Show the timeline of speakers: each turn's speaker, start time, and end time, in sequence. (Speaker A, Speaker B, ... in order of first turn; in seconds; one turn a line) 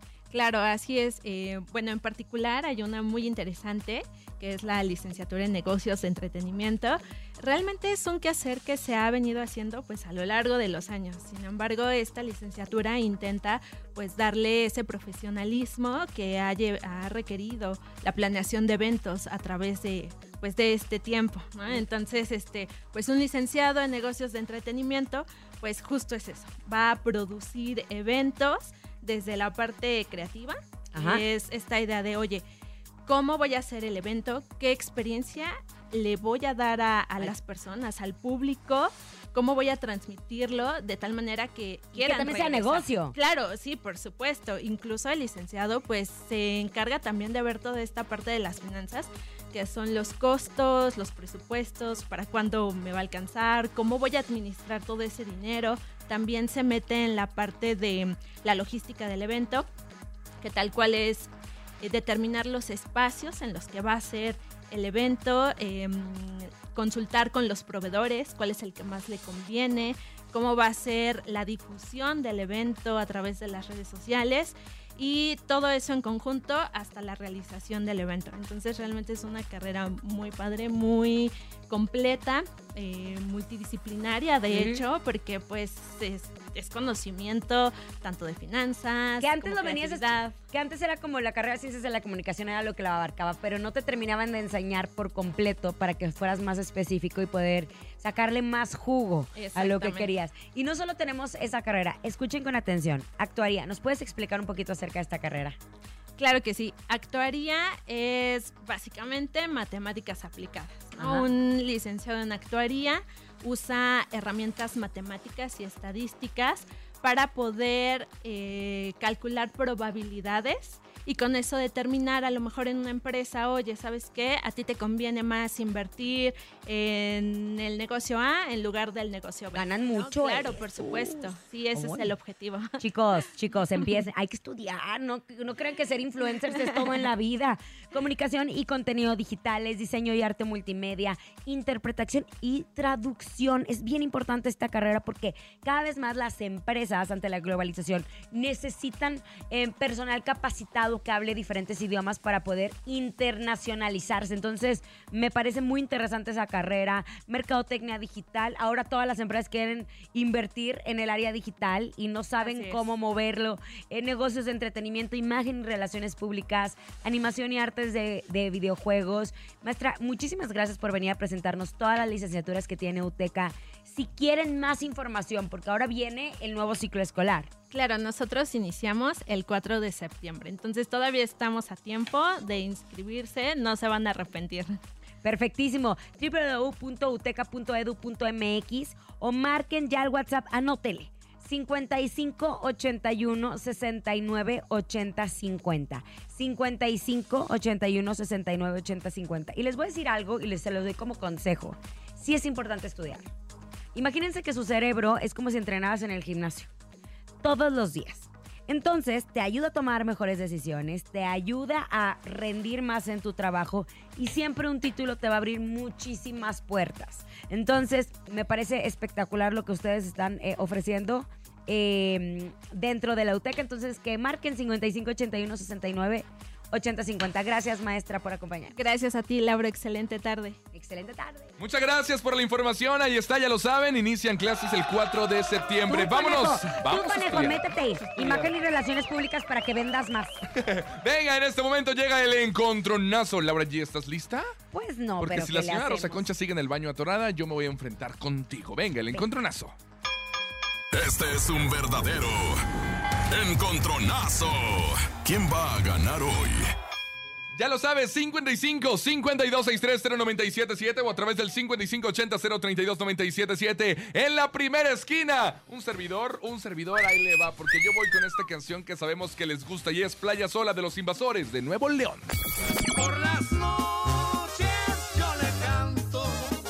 Speaker A: 0.3-32.4
Speaker B: 30.9-31.2
Speaker A: 33.0-59.7
Speaker B: 42.0-43.1
Speaker A: 60.4-61.3
Speaker A: 61.8-90.3
Speaker B: 84.5-84.8
Speaker B: 89.2-105.5
Speaker A: 99.3-100.1
Speaker A: 106.2-132.8
Speaker B: 111.0-111.3
Speaker B: 129.5-132.1
Speaker B: 132.8-177.5
Speaker A: 162.4-162.8
Speaker A: 177.7-184.8
Speaker B: 185.2-203.3
Speaker B: 203.9-206.7
Speaker B: 207.4-228.7
Speaker A: 228.7-230.6
Speaker B: 230.7-231.5
Speaker C: 231.6-238.5
Speaker B: 235.9-240.4
Speaker C: 240.5-244.5
Speaker B: 244.7-246.2
Speaker C: 245.2-249.7
Speaker D: 250.9-252.6
Speaker D: 253.3-256.7
Speaker C: 257.5-272.3
Speaker E: 272.9-276.5